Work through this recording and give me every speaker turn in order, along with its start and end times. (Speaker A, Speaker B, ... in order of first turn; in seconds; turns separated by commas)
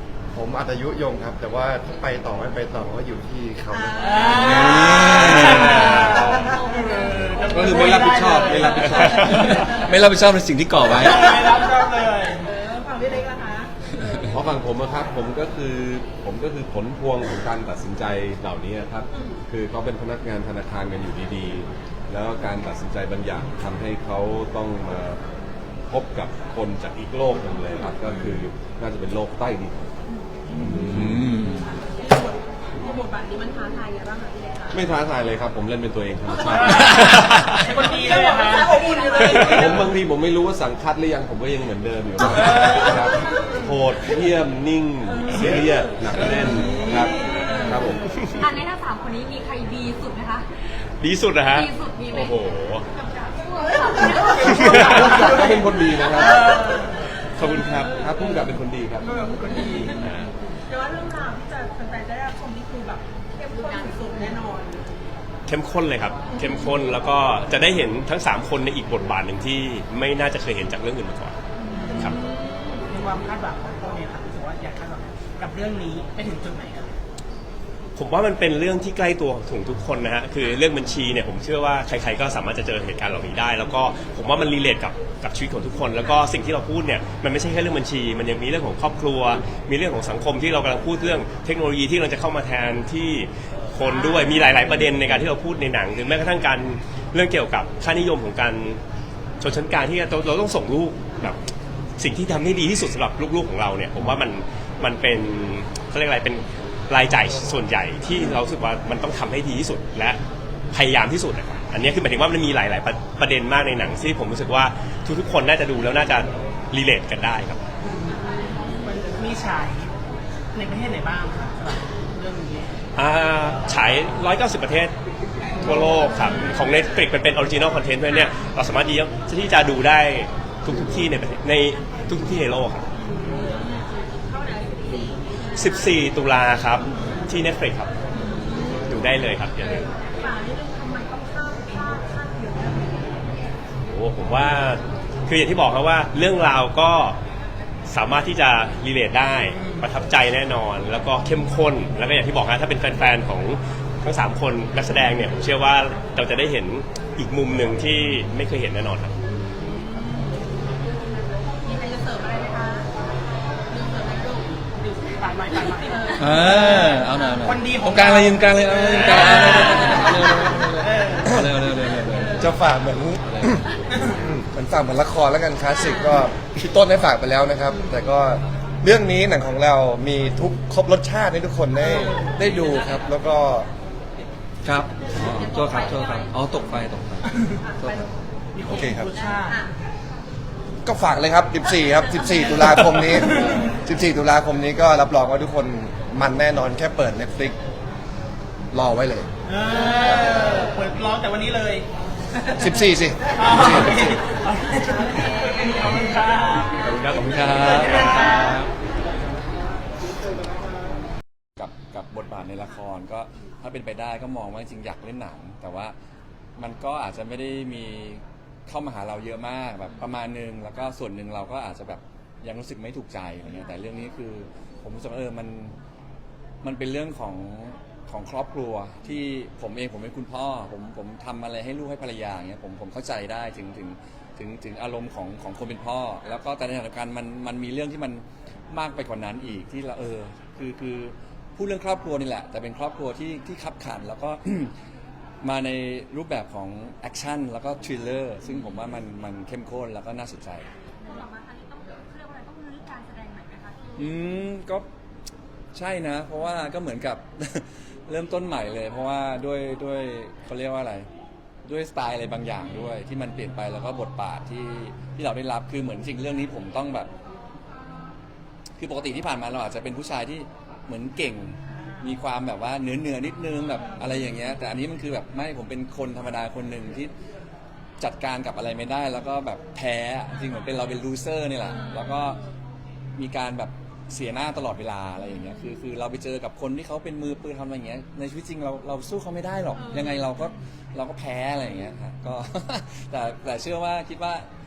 Speaker A: 0.3-4.2, Speaker B: 3.7-7.7, Speaker C: 4.0-9.8, Speaker D: 4.3-5.9, Speaker A: 5.9-6.2, Speaker E: 7.5-9.5, Speaker A: 7.6-9.2, Speaker B: 8.5-9.0, Speaker F: 8.9-9.4, Speaker D: 9.2-11.6, Speaker C: 10.9-12.5, Speaker B: 11.0-11.5, Speaker B: 12.4-14.1, Speaker E: 14.2-25.2, Speaker E: 25.9-30.0, Speaker E: 30.6-31.3, Speaker D: 30.6-31.8, Speaker B: 31.4-34.8, Speaker E: 34.7-37.4, Speaker C: 36.6-39.6, Speaker B: 37.8-39.9, Speaker E: 39.3-48.1, Speaker B: 46.3-50.5, Speaker F: 48.1-48.4, Speaker F: 51.0-52.8, Speaker B: 51.5-52.4, Speaker B: 52.9-56.9, Speaker E: 54.2-56.5, Speaker F: 54.5-55.0, Speaker C: 56.3-57.0, Speaker F: 57.3-58.0, Speaker E: 57.8-59.1, Speaker C: 59.0-60.1, Speaker B: 59.2-60.0, Speaker F: 60.0-60.3, Speaker B: 60.7-65.0, Speaker C: 63.6-64.4, Speaker F: 65.5-71.4, Speaker B: 66.3-66.7, Speaker B: 71.6-72.9, Speaker C: 71.7-72.2, Speaker C: 72.8-77.0, Speaker F: 78.0-98.8, Speaker F: 99.4-101.4, Speaker F: 102.0-110.2, Speaker F: 110.7-117.6, Speaker C: 117.8-119.9, Speaker C: 120.5-122.8, Speaker F: 123.0-124.9, Speaker F: 125.6-132.8, Speaker B: 132.9-136.2, Speaker F: 135.5-137.9, Speaker B: 138.1-138.9, Speaker F: 138.8-139.9, Speaker B: 139.6-143.3, Speaker F: 143.9-147.2, Speaker F: 147.9-159.1, Speaker C: 159.6-159.8, Speaker B: 159.8-160.6, Speaker B: 161.5-162.9, Speaker B: 163.7-164.7, Speaker C: 164.7-171.7, Speaker B: 165.5-166.6, Speaker D: 166.2-172.5, Speaker F: 168.9-169.8, Speaker B: 169.7-170.0, Speaker B: 172.1-172.5, Speaker A: 172.3-183.7, Speaker C: 173.9-174.2, Speaker C: 181.9-182.4, Speaker B: 182.4-182.9, Speaker D: 184.6-188.1, Speaker B: 185.1-186.3, Speaker B: 187.6-188.0, Speaker C: 188.5-189.7, Speaker A: 188.6-189.1, Speaker B: 189.4-189.7, Speaker A: 190.8-197.6, Speaker C: 192.6-193.7, Speaker A: 198.7-199.3, Speaker C: 199.4-201.9, Speaker A: 202.6-204.2, Speaker C: 203.3-208.6, Speaker D: 206.8-208.7, Speaker F: 207.8-208.2, Speaker D: 211.6-215.9, Speaker D: 216.6-225.8, Speaker D: 226.6-244.7, Speaker D: 245.4-250.7, Speaker B: 251.0-254.3, Speaker D: 253.9-254.8, Speaker D: 255.7-261.1, Speaker D: 261.6-267.1, Speaker D: 268.8-277.1, Speaker C: 271.7-272.1, Speaker D: 278.0-282.4, Speaker B: 281.7-282.4, Speaker D: 283.1-294.5, Speaker B: 289.8-290.6